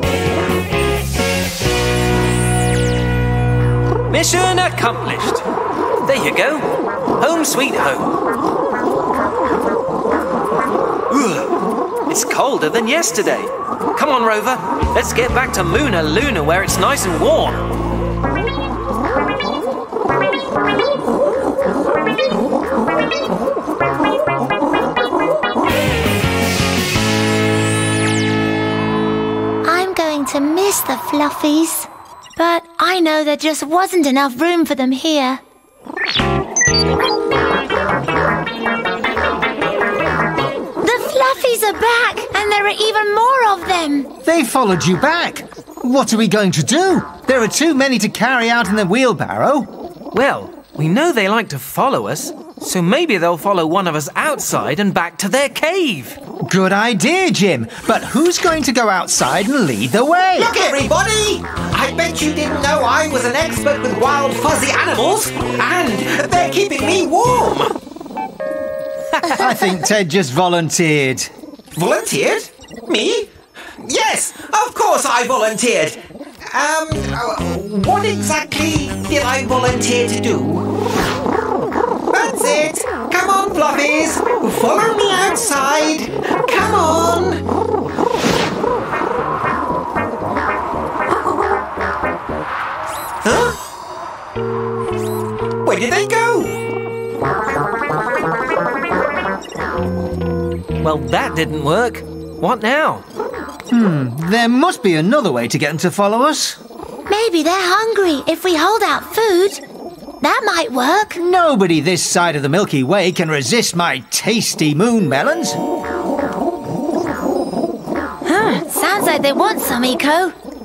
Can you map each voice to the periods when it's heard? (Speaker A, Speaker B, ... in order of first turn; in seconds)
Speaker A: 4.1-5.5, 6.0-8.2, 11.1-11.5, 12.1-17.7, 50.1-56.2, 100.8-103.0
Speaker B: 29.6-35.4, 40.8-44.1, 107.1-109.6, 110.2-111.2, 118.2-120.3
Speaker C: 44.2-49.7, 56.4-60.5, 69.3-71.3, 103.7-106.6, 111.1-115.6
Speaker D: 60.4-67.7, 71.8-80.7, 82.1-87.4, 93.2-93.6, 95.6-96.6